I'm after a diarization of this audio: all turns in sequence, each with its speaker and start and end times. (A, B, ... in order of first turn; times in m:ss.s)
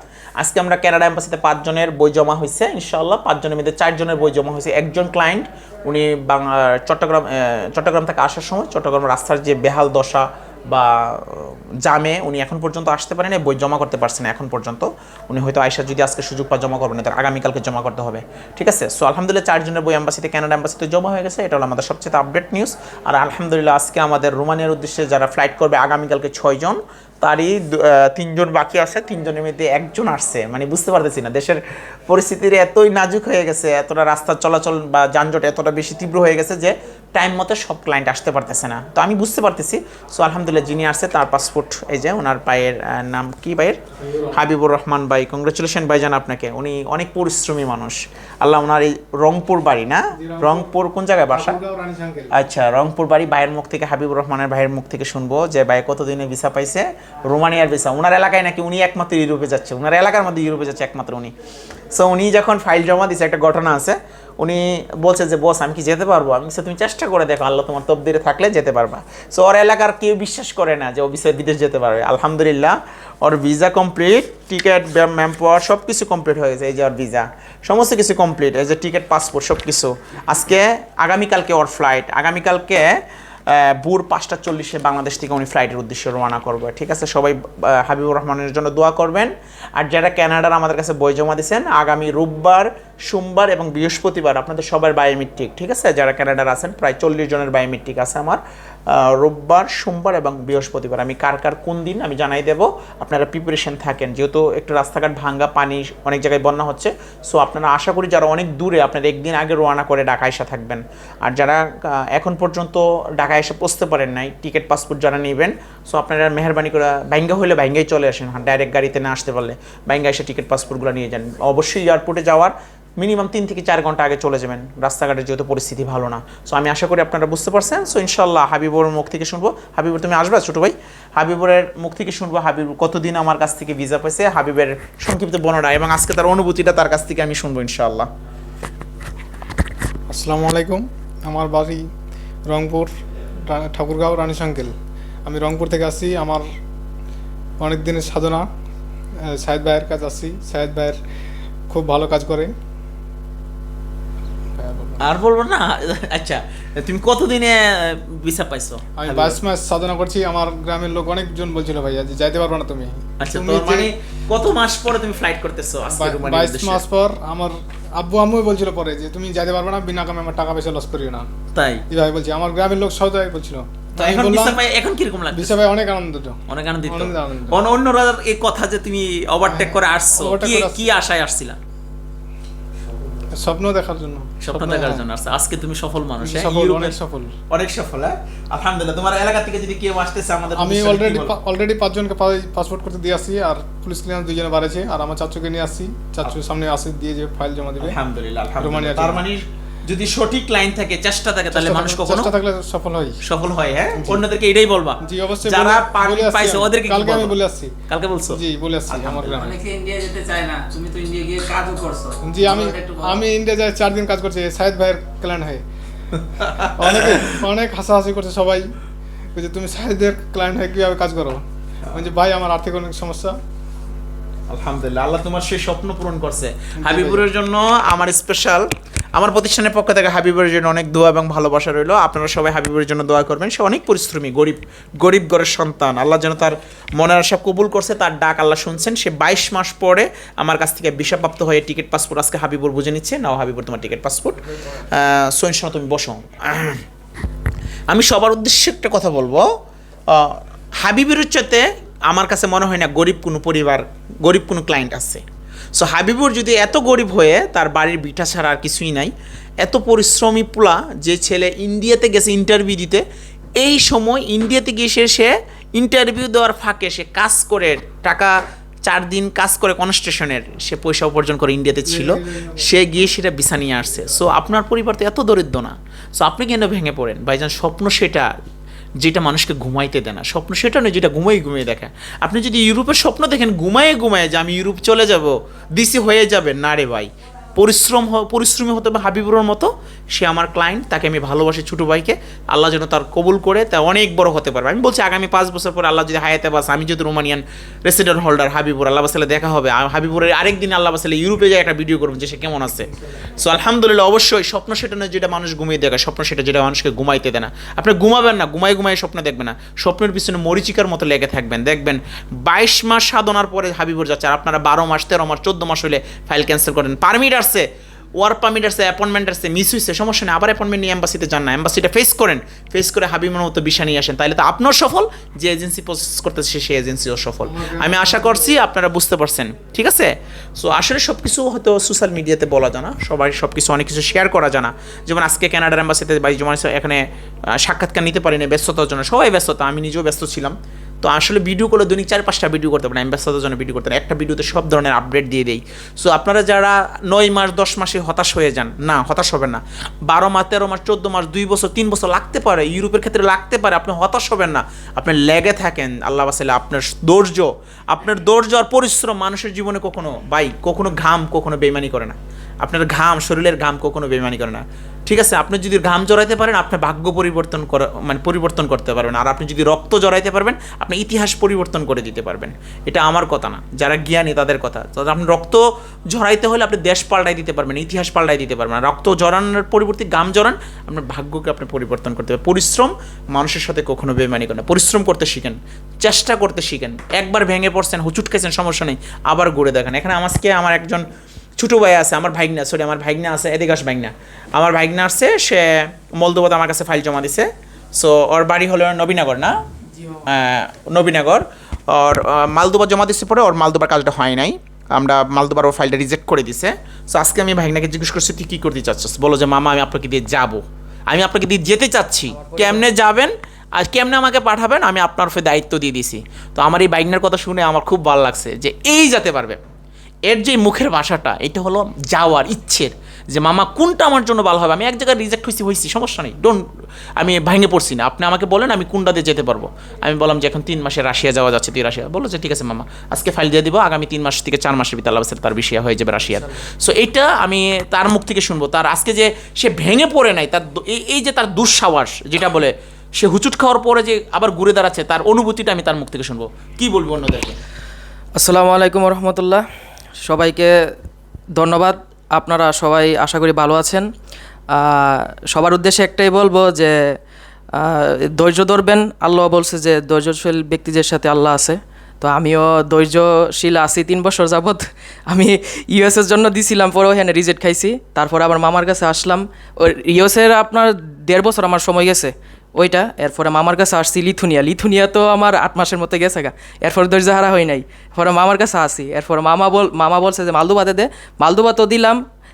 0:00.4-0:43.8 A
0:44.3-0:51.6 A
0:50.1-0:50.7 B
0:51.3-0:52.4 B
0:52.3-1:01.3 A
1:01.9-1:23.0 A
1:23.5-2:18.1 A
2:20.1-2:21.8 B
2:22.5-2:22.9 B
2:23.5-2:24.7 B
2:25.2-2:26.4 B
2:27.6-2:28.4 B
2:29.2-2:31.0 B
2:31.7-2:32.5 B
2:34.6-2:35.1 B
2:35.0-2:39.4 A
2:39.0-2:43.9 B
2:43.2-2:46.8 A
2:45.9-2:51.3 B
2:51.5-2:51.8 A
2:51.9-2:54.6 B
2:54.0-2:55.6 A
2:55.3-2:57.6 B
2:56.5-3:01.6 A
2:59.5-3:00.9 B
3:03.3-3:05.0 B
3:04.4-3:07.0 A
3:06.2-3:07.3 B
3:07.5-3:11.3 A
3:10.6-3:18.0 B
3:17.8-3:22.3 A
3:18.6-3:19.2 B
3:21.5-3:23.2 B
3:23.2-3:27.4 A
3:23.9-3:24.2 B
3:25.0-3:27.7 B
3:27.9-3:28.4 A
3:28.3-3:29.6 B
3:28.9-3:29.2 A
3:29.2-3:33.2 C
3:32.2-3:35.6 B
3:36.4-3:37.3 A
3:36.7-3:38.7 B
3:39.3-3:41.4 B
3:41.9-3:43.4 B
3:44.5-4:06.8 A
3:46.8-3:47.3 B
4:07.9-4:09.4 A
4:10.1-4:15.2 A
4:15.8-4:23.0 A
4:23.6-4:28.4 A
4:28.9-4:38.3 A
4:31.8-4:32.6 B
4:39.0-5:17.7 A
5:18.2-6:31.0 A
5:27.4-5:28.4 B
6:31.6-6:39.6 A
6:39.9-6:40.3 D
6:40.2-6:59.6 A
6:52.3-6:52.9 D
7:00.3-7:06.6 A
7:07.2-7:27.6 A
7:28.3-7:29.6 D
7:30.2-7:30.8 D
7:31.5-7:34.1 D
7:34.7-7:37.2 D
7:37.7-8:02.2 D